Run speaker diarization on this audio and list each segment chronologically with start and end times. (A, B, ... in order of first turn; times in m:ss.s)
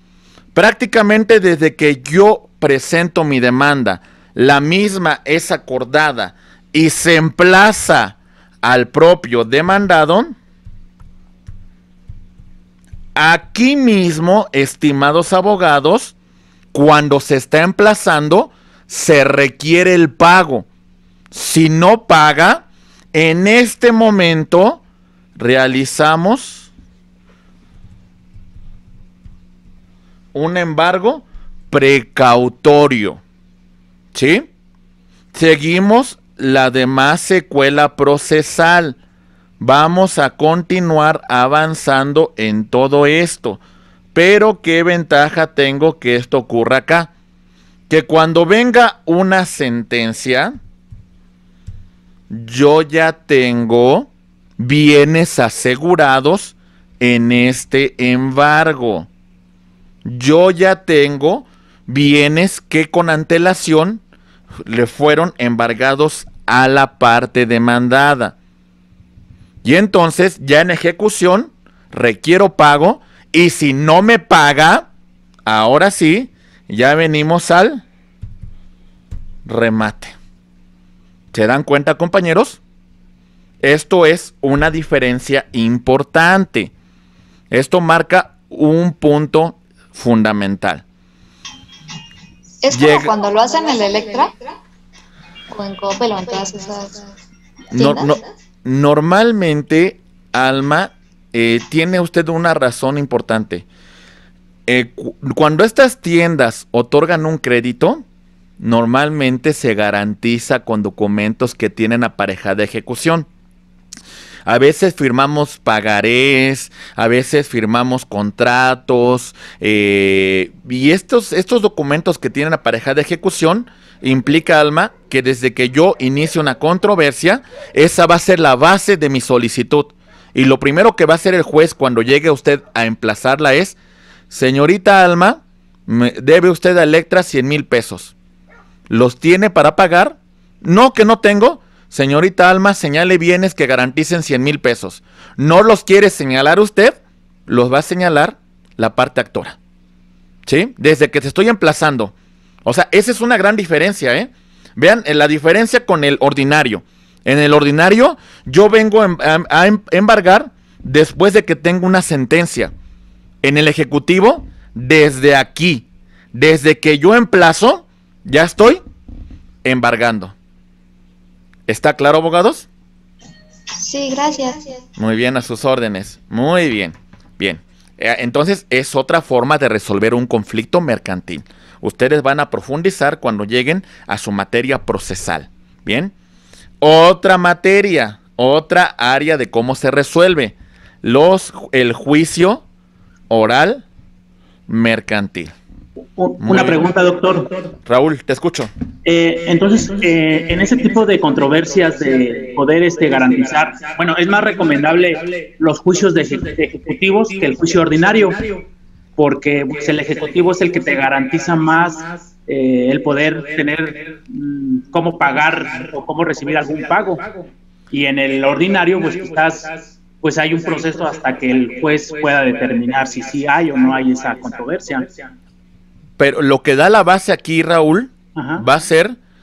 0:00.5-0:10.4 A
0:13.2-0:16.1 A
0:16.7-0:20.7 A
0:21.3-0:24.8 A
0:25.4-0:26.7 A
0:30.3-0:33.2 A
0:34.1-0:34.5 A
0:35.3-0:39.0 A
0:39.6-0:43.6 A
0:44.1-0:47.1 A
0:47.9-0:50.6 A
0:52.3-0:59.1 A
1:00.0-1:04.0 A
1:04.6-1:08.4 A
1:09.6-1:14.9 A
1:15.5-1:17.8 A
1:19.5-1:20.1 A
1:21.3-1:22.6 A
1:23.6-1:26.7 A
1:27.5-1:30.8 A
1:32.6-1:34.5 B
1:32.7-1:33.1 A
1:35.5-1:37.1 B
1:37.7-1:38.2 B
1:37.8-1:43.6 A
1:44.7-1:48.0 A
1:48.6-1:53.3 A
1:54.5-2:13.8 A
2:14.3-2:18.1 A
2:18.9-2:29.6 A
2:30.5-2:32.1 A
2:32.6-2:42.7 A
2:43.4-2:48.8 A
2:49.6-2:50.3 A
2:51.7-2:52.7 A
2:53.8-2:54.8 B
2:55.0-3:06.1 A
3:06.8-3:12.6 A
3:13.3-3:13.8 A
3:14.7-3:15.5 A
3:16.2-3:17.5 C
3:16.4-3:16.8 A
3:17.8-3:18.7 A
3:19.1-3:28.4 C
3:29.2-3:37.3 C
3:37.9-3:45.3 C
3:46.2-3:49.2 A
3:48.4-3:48.6 C